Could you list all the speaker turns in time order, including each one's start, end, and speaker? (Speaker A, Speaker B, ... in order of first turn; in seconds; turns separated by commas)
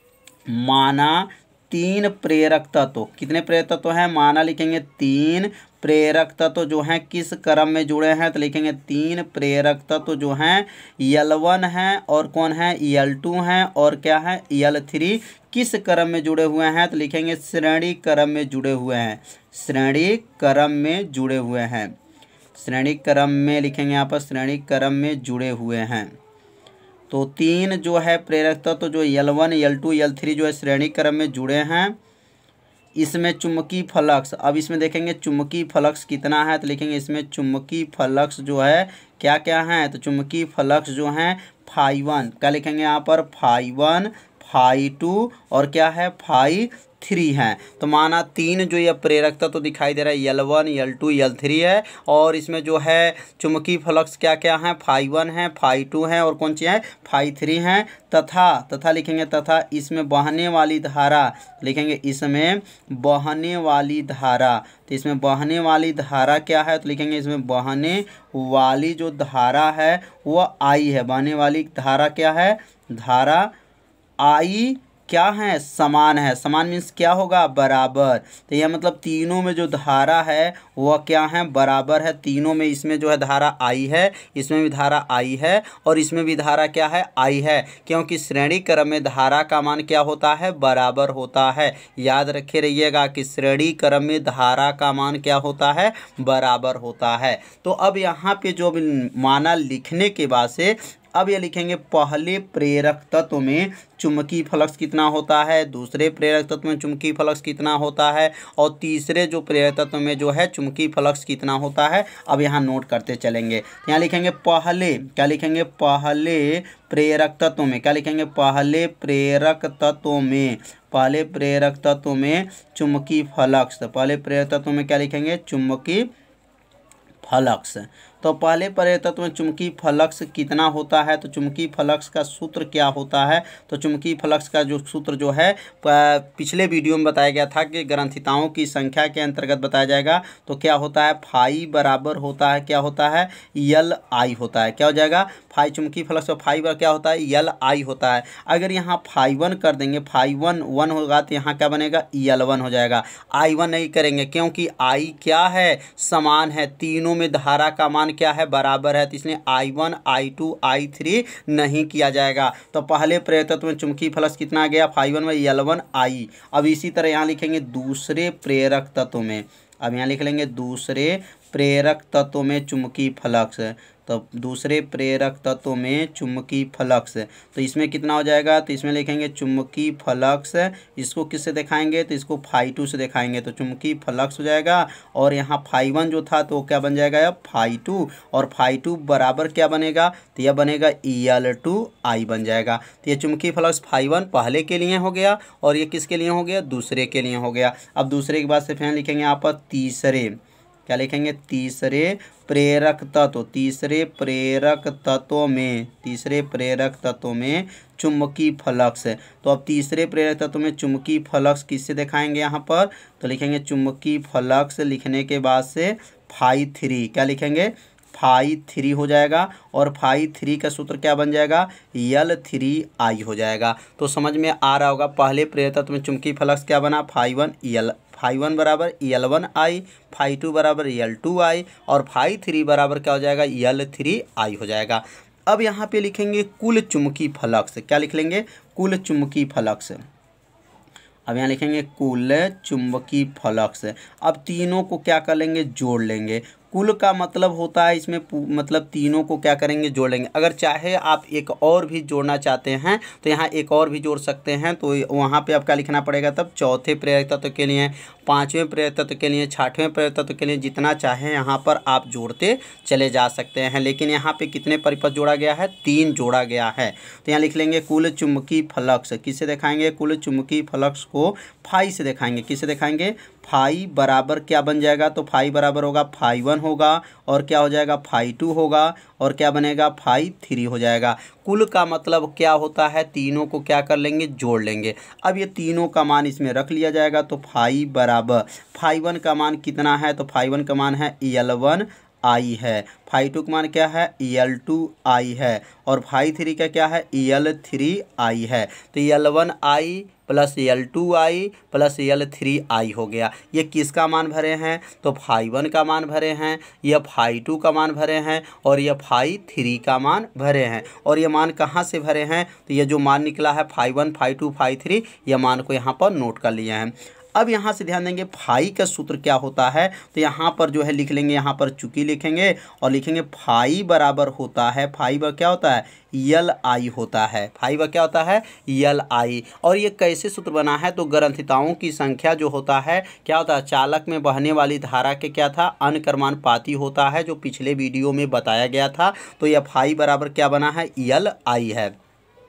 Speaker A: 0.5-21.9, Speaker A: 22.6-26.2, Speaker A: 27.1-32.0, Speaker A: 33.0-73.5, Speaker A: 74.2-126.1, Speaker A: 127.2-240.0, Speaker A: 241.3-341.9